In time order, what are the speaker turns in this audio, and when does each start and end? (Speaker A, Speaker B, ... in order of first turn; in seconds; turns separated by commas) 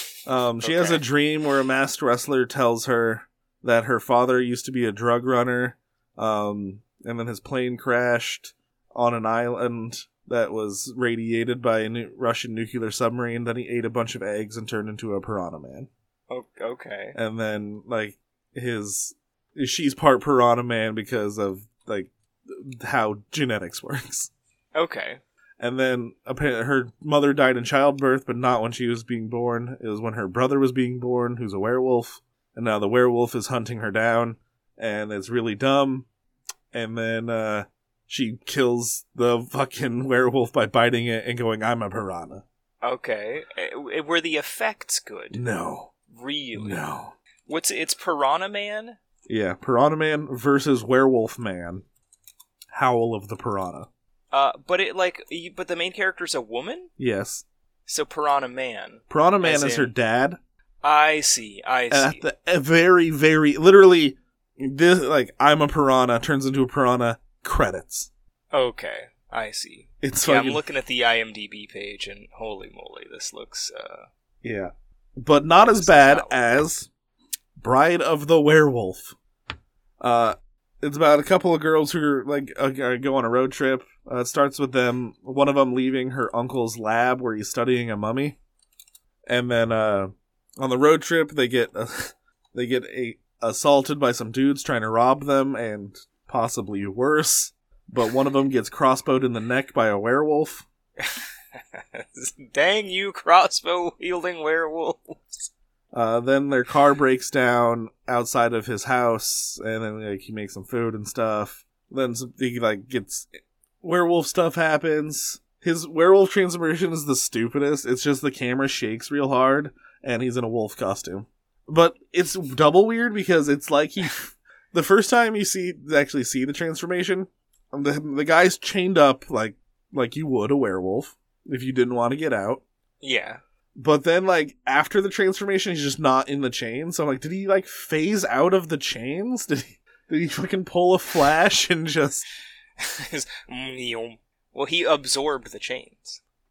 Speaker A: 0.3-15.9, Speaker B: 0.6-1.0, Speaker B: 16.3-17.2, Speaker A: 17.1-24.3, Speaker B: 24.8-25.2, Speaker A: 25.6-36.1, Speaker A: 36.7-42.4, Speaker B: 42.8-45.4, Speaker A: 45.3-45.9, Speaker B: 46.1-46.8, Speaker A: 46.6-47.1, Speaker B: 47.5-49.0, Speaker A: 49.3-51.9, Speaker A: 52.7-53.9, Speaker B: 54.3-56.9, Speaker A: 57.0-57.4, Speaker B: 57.9-59.9, Speaker A: 59.1-60.4, Speaker B: 60.8-62.2, Speaker A: 61.9-68.1, Speaker B: 68.5-74.1, Speaker A: 70.0-70.6, Speaker A: 74.4-76.9, Speaker B: 75.6-76.4, Speaker A: 77.6-79.2, Speaker A: 80.0-88.4, Speaker A: 89.3-100.7, Speaker B: 101.8-105.5, Speaker A: 105.9-132.6, Speaker B: 133.0-133.4, Speaker A: 133.8-142.2, Speaker B: 142.8-146.2